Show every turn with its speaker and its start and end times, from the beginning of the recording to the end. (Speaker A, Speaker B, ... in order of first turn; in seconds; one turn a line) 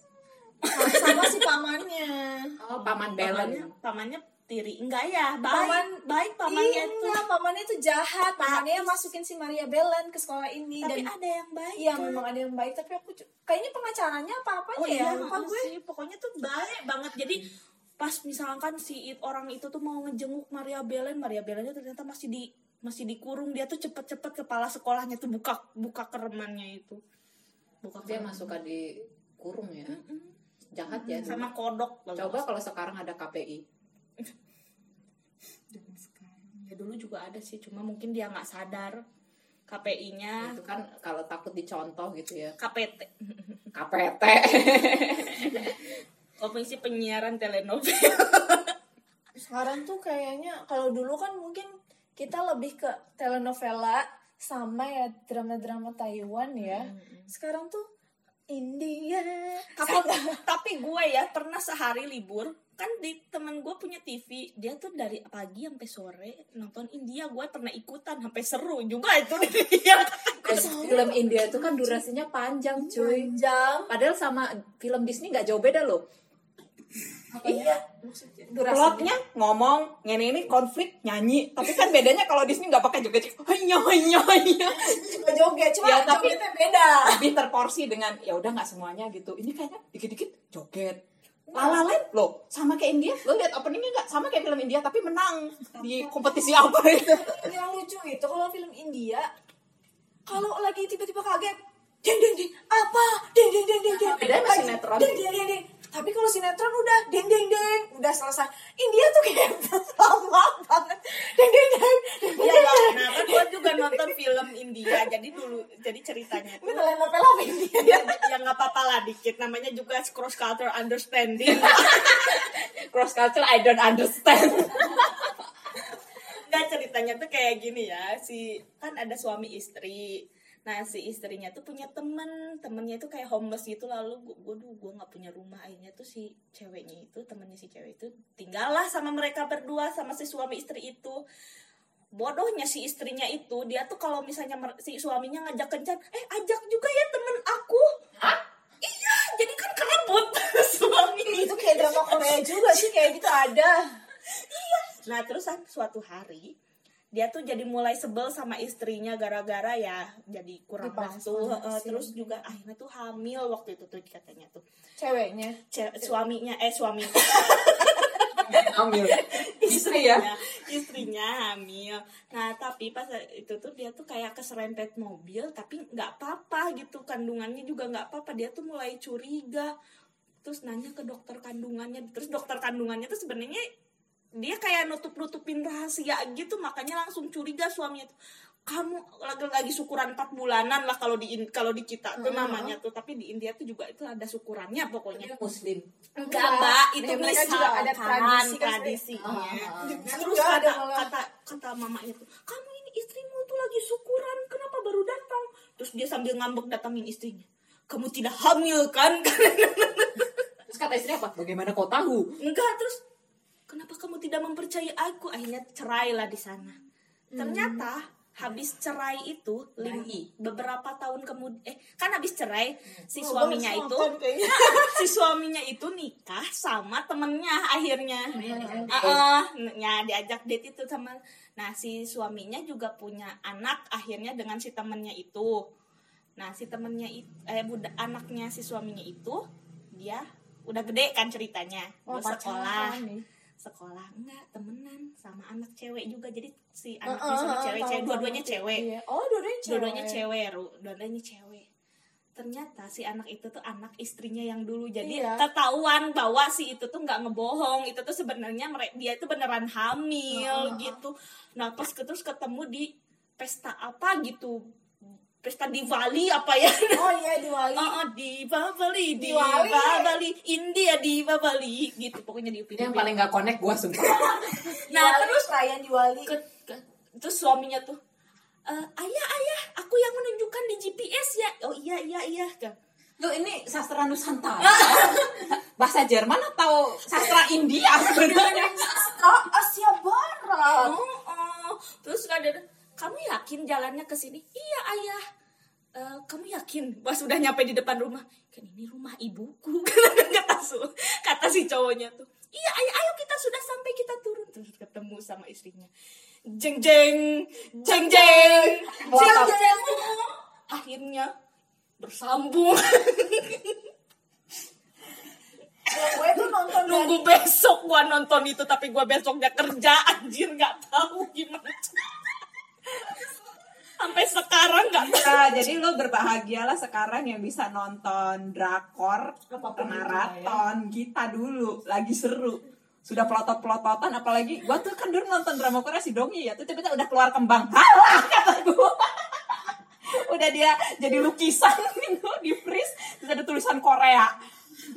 Speaker A: 0.6-1.5
Speaker B: 0.7-2.5
Speaker C: 2.6-3.7
Speaker A: 2.8-7.2
Speaker B: 5.5-11.1
Speaker A: 8.4-9.1
Speaker A: 10.8-12.2
Speaker B: 11.8-15.7
Speaker A: 14.8-17.5
Speaker A: 18.0-27.0
Speaker A: 27.8-28.5
Speaker C: 28.0-30.0
Speaker A: 29.9-30.3
Speaker C: 30.7-31.5
Speaker A: 30.9-32.4
Speaker C: 32.2-33.6
Speaker A: 35.7-39.0
Speaker A: 39.7-40.6
Speaker C: 40.4-42.6
Speaker A: 42.6-43.6
Speaker C: 43.7-45.9
Speaker A: 46.4-48.8
Speaker B: 49.4-57.9
Speaker A: 56.6-57.3
Speaker B: 58.5-60.4
Speaker A: 59.8-70.9
Speaker C: 70.4-73.3
Speaker B: 70.5-72.0
Speaker B: 72.8-73.9
Speaker C: 73.9-76.0
Speaker B: 77.3-77.8
Speaker C: 77.4-77.7
Speaker A: 77.6-78.4
Speaker B: 78.4-79.1
Speaker C: 78.6-85.1
Speaker B: 84.7-87.3
Speaker C: 85.8-86.4
Speaker C: 87.0-91.0
Speaker B: 91.5-92.0
Speaker C: 91.5-97.5
Speaker B: 95.8-99.3
Speaker B: 100.3-114.1
Speaker C: 103.9-105.2
Speaker A: 112.4-116.8
Speaker B: 116.6-118.3
Speaker A: 117.8-122.3
Speaker C: 121.4-125.4
Speaker A: 126.2-141.2
Speaker A: 142.1-147.9
Speaker A: 148.8-153.3
Speaker B: 151.3-153.9
Speaker A: 154.3-156.5
Speaker A: 157.1-164.6
Speaker B: 160.8-162.1
Speaker B: 165.0-165.6
Speaker A: 165.7-179.7
Speaker C: 168.4-170.2
Speaker A: 180.4-183.6
Speaker A: 184.4-188.1
Speaker A: 188.7-195.3
Speaker B: 192.2-192.7
Speaker C: 195.1-195.9
Speaker A: 196.2-210.3
Speaker B: 196.2-201.1
Speaker C: 199.2-200.1
Speaker C: 210.7-212.3
Speaker A: 212.4-213.0
Speaker A: 213.7-216.8
Speaker A: 217.3-235.6
Speaker B: 217.4-217.8
Speaker C: 219.8-220.3
Speaker B: 223.2-225.1
Speaker B: 228.3-229.1
Speaker C: 228.5-229.2
Speaker A: 236.4-243.0
Speaker B: 242.1-243.2
Speaker A: 243.6-248.8
Speaker B: 247.1-250.2
Speaker A: 249.7-251.7
Speaker A: 252.4-264.6
Speaker B: 255.0-255.5
Speaker B: 260.3-261.0
Speaker A: 265.4-267.1
Speaker B: 266.9-268.0
Speaker A: 267.8-273.1
Speaker B: 269.2-270.1
Speaker C: 272.7-274.8
Speaker B: 274.7-276.4
Speaker A: 274.9-275.5
Speaker A: 276.3-278.0
Speaker A: 278.7-282.8
Speaker C: 283.2-289.1
Speaker A: 284.6-285.3
Speaker B: 288.1-291.0
Speaker A: 290.8-295.2
Speaker A: 295.9-305.9
Speaker A: 306.5-311.3
Speaker B: 307.8-310.1
Speaker C: 309.0-309.6
Speaker A: 312.0-313.9
Speaker B: 315.9-317.2
Speaker A: 316.0-322.3
Speaker A: 323.0-323.3
Speaker A: 324.0-325.6
Speaker C: 325.0-344.3
Speaker B: 329.5-330.6